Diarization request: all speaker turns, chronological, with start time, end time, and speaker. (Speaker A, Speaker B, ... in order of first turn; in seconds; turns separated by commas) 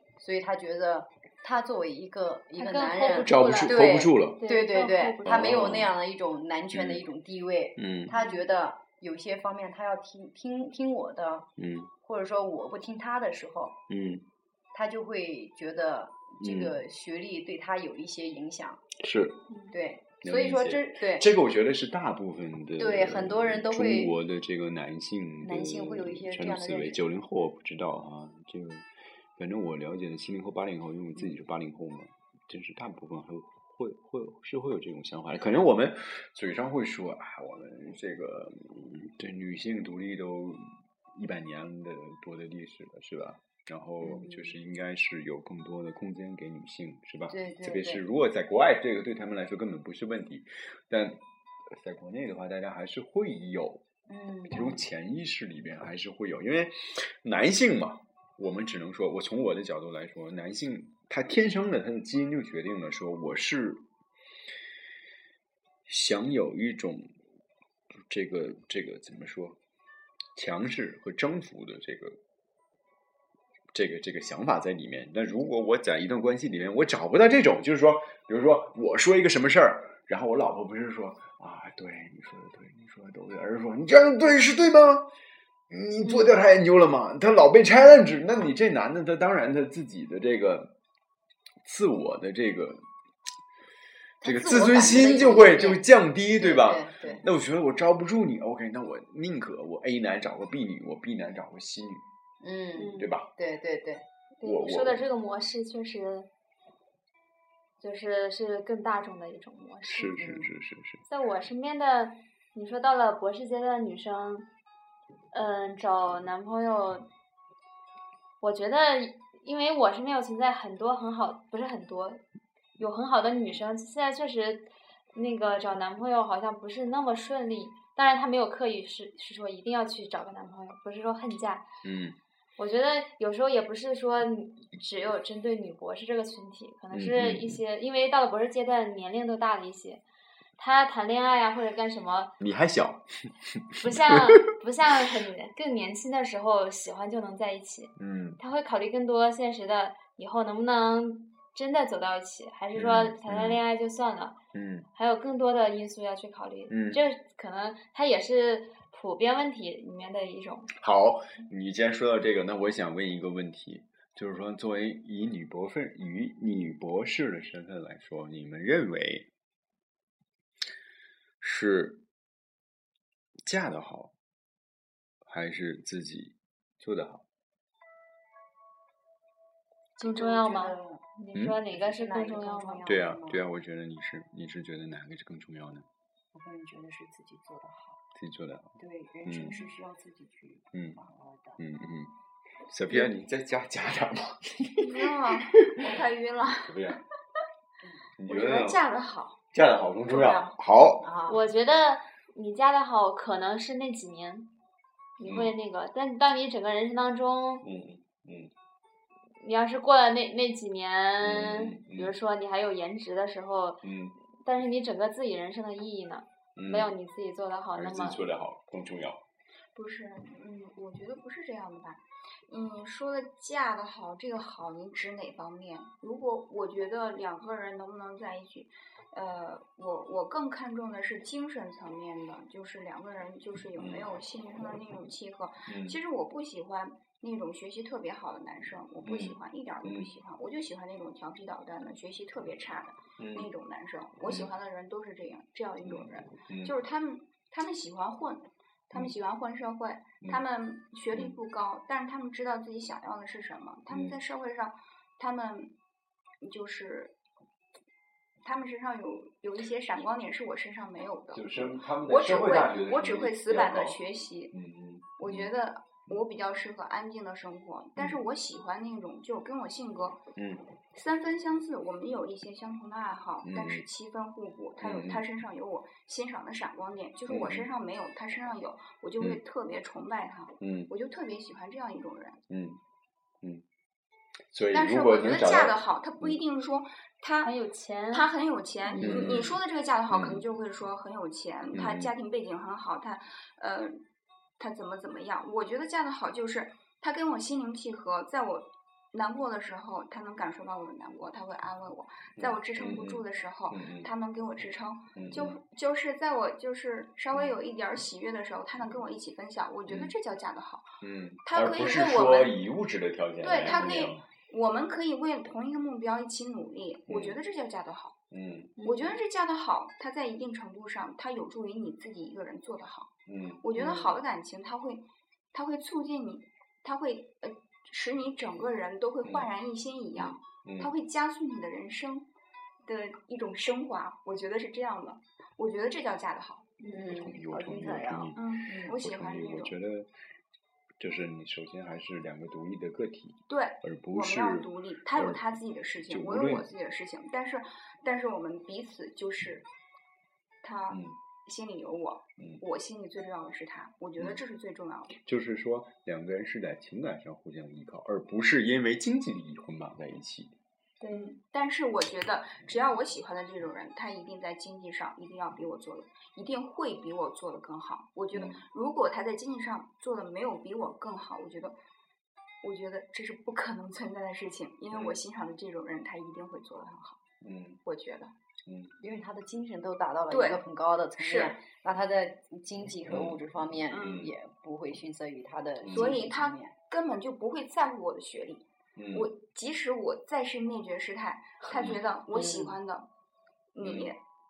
Speaker A: 0.1-13.8, Speaker B: 2.6-5.5, Speaker C: 3.2-4.4, Speaker C: 5.2-6.0, Speaker C: 6.7-7.0, Speaker C: 7.8-8.1, Speaker B: 8.1-8.4, Speaker C: 11.6-11.9, Speaker C: 13.9-14.3, Speaker A: 14.7-18.8, Speaker C: 16.4-16.8, Speaker C: 19.0-19.4, Speaker B: 19.5-19.8, Speaker A: 19.7-21.3, Speaker C: 20.2-53.8, Speaker A: 22.8-24.1, Speaker A: 25.4-27.0, Speaker A: 44.0-44.6, Speaker A: 47.3-48.0, Speaker A: 54.1-54.8, Speaker C: 54.5-63.9, Speaker C: 65.9-67.1, Speaker C: 67.9-69.6, Speaker C: 70.3-72.2, Speaker C: 73.7-85.1, Speaker C: 85.7-90.7, Speaker C: 91.6-92.9, Speaker A: 94.2-97.2, Speaker C: 94.2-102.1, Speaker A: 102.4-104.1, Speaker B: 102.8-103.1, Speaker C: 102.9-103.3, Speaker B: 104.4-106.3, Speaker C: 104.4-105.0, Speaker B: 107.8-110.1, Speaker C: 109.8-111.0, Speaker A: 110.2-110.5, Speaker B: 111.1-114.5, Speaker B: 115.3-117.1, Speaker B: 118.4-122.2, Speaker B: 122.8-131.7, Speaker C: 131.8-132.2, Speaker B: 132.6-140.0, Speaker C: 136.9-137.6, Speaker B: 140.6-142.3, Speaker C: 142.4-144.4, Speaker B: 143.8-154.4, Speaker C: 148.0-148.4, Speaker C: 152.8-153.6, Speaker C: 154.5-154.9, Speaker B: 154.9-160.7, Speaker C: 156.7-157.0, Speaker C: 160.8-169.3, Speaker C: 171.4-172.0, Speaker C: 173.4-174.1, Speaker C: 175.2-177.2, Speaker B: 180.0-182.9, Speaker A: 180.0-181.1, Speaker C: 181.3-181.6, Speaker A: 181.7-183.4, Speaker C: 182.8-185.9, Speaker A: 186.3-188.0, Speaker C: 188.2-189.7, Speaker A: 188.8-191.6, Speaker C: 190.7-191.0, Speaker C: 191.6-192.1, Speaker C: 192.7-195.9, Speaker D: 194.8-197.0, Speaker C: 196.6-197.0, Speaker C: 198.2-198.8, Speaker D: 198.3-199.4, Speaker C: 199.5-201.0, Speaker D: 200.1-200.6, Speaker A: 201.0-201.4, Speaker B: 201.3-204.5, Speaker B: 205.2-207.7, Speaker C: 205.2-205.6, Speaker C: 207.6-208.5, Speaker B: 209.4-218.2, Speaker C: 211.2-212.1, Speaker C: 213.8-214.2, Speaker C: 216.6-216.9, Speaker C: 217.8-219.2, Speaker D: 219.8-255.8, Speaker C: 233.8-234.1, Speaker C: 235.7-236.0, Speaker C: 239.0-240.1, Speaker C: 243.2-243.5, Speaker C: 244.3-244.5, Speaker C: 245.8-246.7, Speaker C: 253.9-254.2, Speaker D: 256.4-257.1, Speaker D: 258.4-261.5, Speaker C: 261.3-264.0, Speaker D: 262.0-264.5, Speaker C: 264.5-265.5, Speaker D: 265.2-270.2, Speaker C: 268.0-268.2, Speaker C: 270.4-270.6, Speaker D: 270.9-282.4, Speaker C: 273.4-273.9, Speaker C: 274.8-275.2, Speaker C: 277.3-277.7, Speaker C: 280.6-280.9, Speaker C: 282.5-282.8, Speaker C: 284.5-286.4, Speaker D: 284.7-287.5, Speaker B: 287.4-288.3, Speaker D: 288.1-294.0, Speaker C: 289.0-289.6, Speaker C: 290.1-290.4, Speaker C: 291.7-292.1, Speaker D: 294.6-310.9, Speaker C: 302.4-304.1, Speaker C: 305.1-305.6, Speaker C: 309.9-310.1, Speaker C: 311.0-314.2, Speaker D: 311.4-312.5, Speaker D: 313.4-318.2, Speaker C: 317.1-317.4, Speaker C: 318.3-318.8, Speaker B: 318.8-319.2, Speaker D: 318.8-332.3, Speaker C: 323.2-323.6, Speaker A: 323.8-324.1, Speaker C: 329.2-329.5, Speaker C: 330.1-330.9, Speaker D: 332.9-336.7, Speaker A: 336.8-339.0, Speaker C: 337.1-340.1, Speaker D: 338.4-339.7, Speaker C: 341.0-345.4, Speaker D: 343.5-349.7, Speaker C: 346.1-346.7, Speaker D: 350.6-355.2, Speaker C: 350.9-351.2, Speaker C: 355.1-360.6, Speaker A: 361.0-361.3, Speaker D: 361.1-371.8, Speaker C: 368.3-368.6, Speaker D: 372.6-377.2, Speaker C: 374.9-375.2, Speaker C: 377.4-377.8, Speaker D: 377.8-378.4, Speaker C: 378.6-378.9, Speaker A: 379.0-386.8, Speaker D: 380.3-380.6, Speaker D: 381.2-381.6, Speaker C: 383.1-383.4, Speaker D: 383.9-384.3, Speaker C: 384.0-384.3, Speaker C: 385.8-386.2, Speaker D: 385.9-393.1, Speaker C: 389.0-389.3, Speaker C: 391.7-392.0, Speaker A: 392.3-392.8, Speaker D: 393.7-394.2, Speaker C: 393.8-394.1